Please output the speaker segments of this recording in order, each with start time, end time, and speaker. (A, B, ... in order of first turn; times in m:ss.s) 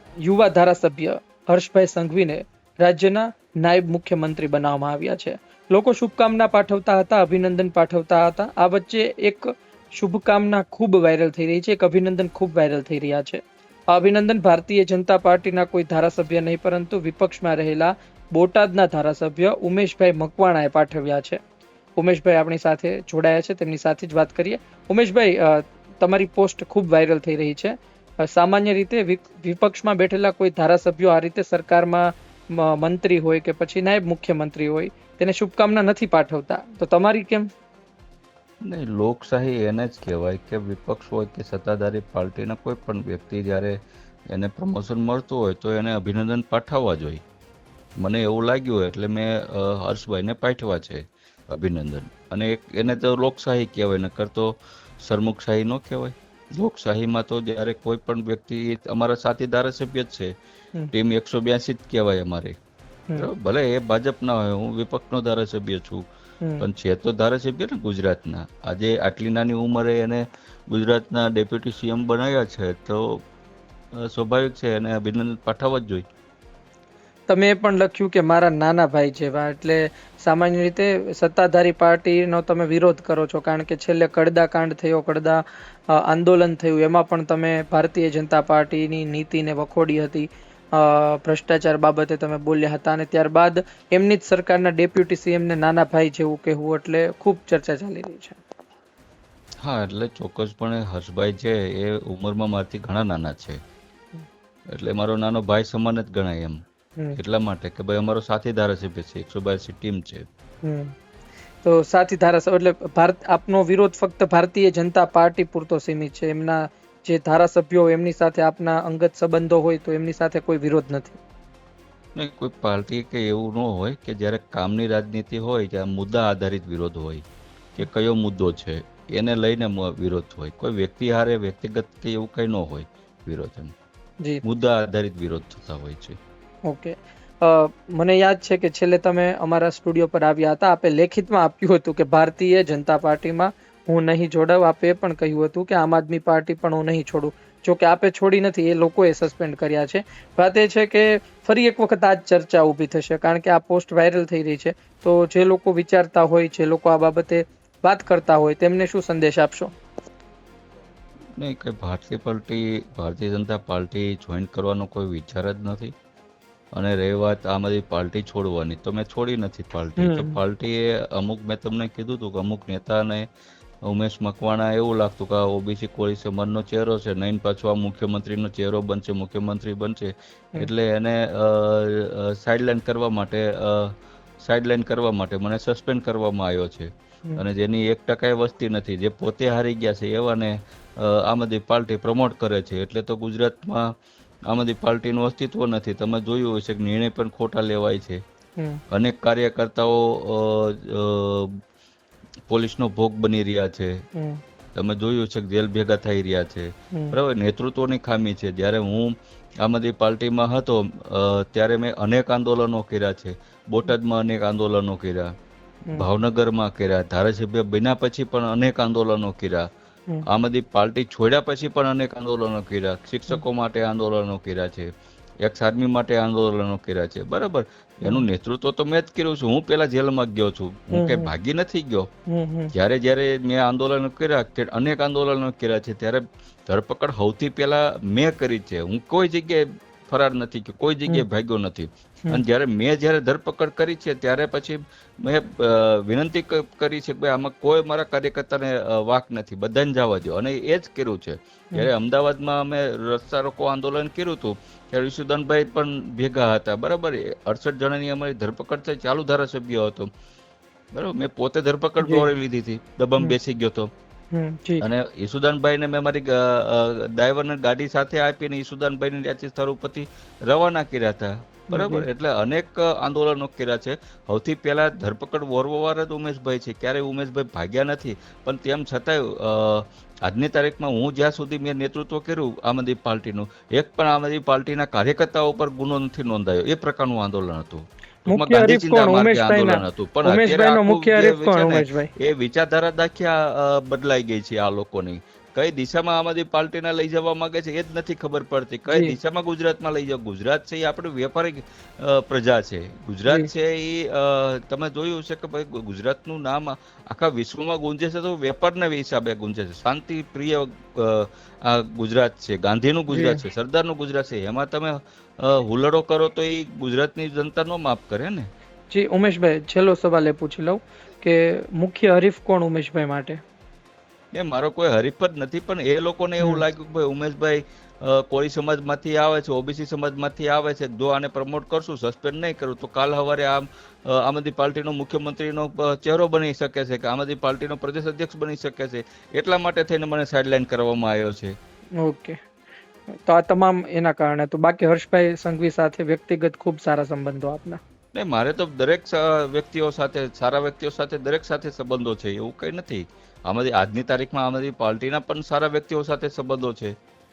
0:00.2-0:21.4 A
0:22.0-0:37.5 A
0:38.6-0:43.8 B
0:44.3-0:47.2 B
0:48.0-1:00.3 B
1:00.9-1:02.5 B
1:03.1-1:06.0 B
1:06.6-1:13.2 B
1:14.0-1:16.0 B
1:17.3-1:38.4 A
1:39.6-1:43.6 B
1:44.7-1:46.6 B
1:47.1-1:50.2 B
1:50.6-1:50.9 A
1:51.6-2:01.2 A
2:02.1-2:07.2 B
2:07.7-2:13.7 B
2:14.4-2:16.2 B
2:16.7-2:39.7 A
2:41.4-2:45.9 B
2:46.8-2:53.3 B
2:50.0-2:50.4 A
2:53.9-3:13.9 B
3:14.5-3:18.2 B
3:18.9-3:21.5 B
3:22.5-3:23.9 B
3:24.2-3:24.4 A
3:24.8-3:35.3 B
3:35.9-3:39.6 B
3:40.2-3:44.9 B
3:45.4-3:52.1 B
3:50.9-3:51.3 A
3:52.3-3:52.7 A
3:52.7-4:20.1 B
4:20.9-4:23.9 B
4:22.0-4:22.3 A
4:24.3-4:24.8 A
4:24.8-5:18.5 B
4:31.7-4:32.1 A
4:48.3-4:52.1 A
4:58.9-4:59.2 A
5:13.1-5:13.4 A
5:18.9-5:23.4 A
5:24.3-5:41.5 B
5:42.0-5:42.4 A
5:43.2-5:47.8 A
5:48.1-5:56.9 B